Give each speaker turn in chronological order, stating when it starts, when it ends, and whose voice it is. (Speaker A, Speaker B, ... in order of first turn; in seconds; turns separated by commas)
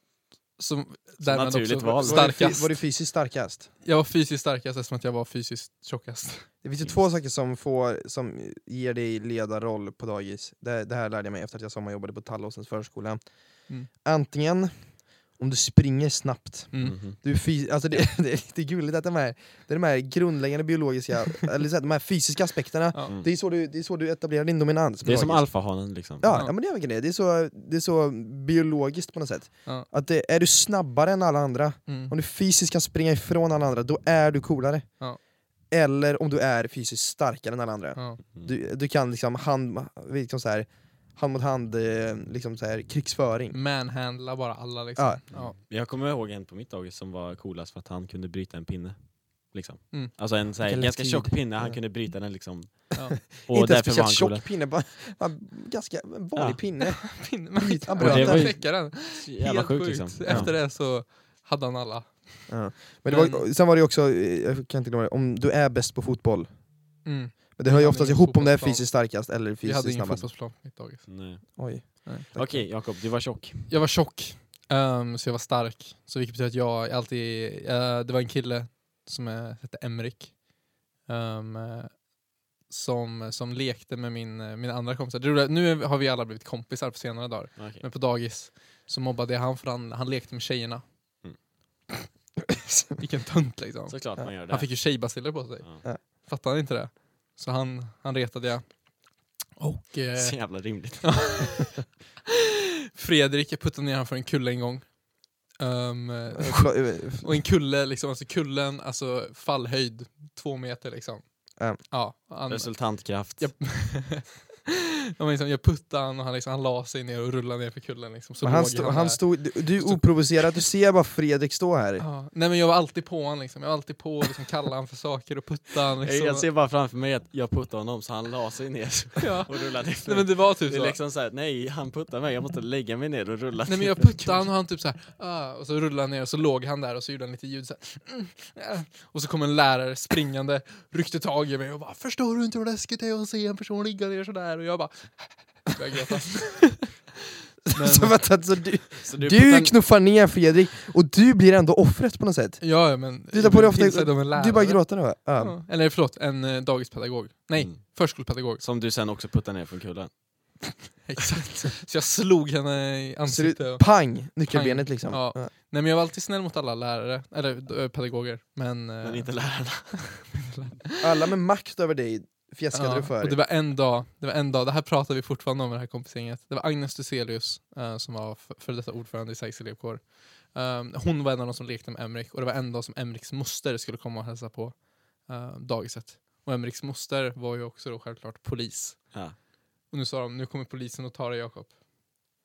Speaker A: 0.6-2.9, Speaker B: 1.2-2.4, Speaker C: 2.0-3.7, Speaker A: 3.8-6.5, Speaker C: 6.6-34.9, Speaker A: 16.7-17.0, Speaker B: 16.8-17.2, Speaker B: 25.0-26.3, Speaker A: 26.3-26.5, Speaker A: 31.9-32.1, Speaker C: 35.7-43.6, Speaker A: 38.0-38.2, Speaker A: 43.5-45.6, Speaker B: 45.3-54.5, Speaker C: 50.6-51.8, Speaker C: 53.3-58.5, Speaker A: 56.8-63.5, Speaker B: 58.0-60.6, Speaker C: 60.3-60.5, Speaker C: 62.5-66.7, Speaker A: 67.0-73.1, Speaker C: 67.6-70.3, Speaker B: 71.1-73.7, Speaker C: 71.6-72.7, Speaker A: 73.7-80.5, Speaker A: 81.0-82.1, Speaker A: 82.7-90.8, Speaker B: 87.6-87.9, Speaker A: 93.0-98.9, Speaker B: 93.9-95.0, Speaker A: 99.6-101.9, Speaker B: 100.2-101.6, Speaker A: 103.0-120.6, Speaker C: 106.4-107.4, Speaker B: 112.5-113.8, Speaker C: 118.4-122.0, Speaker A: 122.0-126.5, Speaker B: 126.0-134.5, Speaker A: 129.2-131.0, Speaker A: 133.7-146.9, Speaker C: 147.7-155.6, Speaker A: 147.7-148.4, Speaker B: 149.0-149.9, Speaker A: 152.6-158.6, Speaker B: 157.6-160.8, Speaker A: 160.9-171.0, Speaker C: 163.3-165.5, Speaker B: 169.0-170.2, Speaker C: 171.0-173.4, Speaker A: 172.7-191.8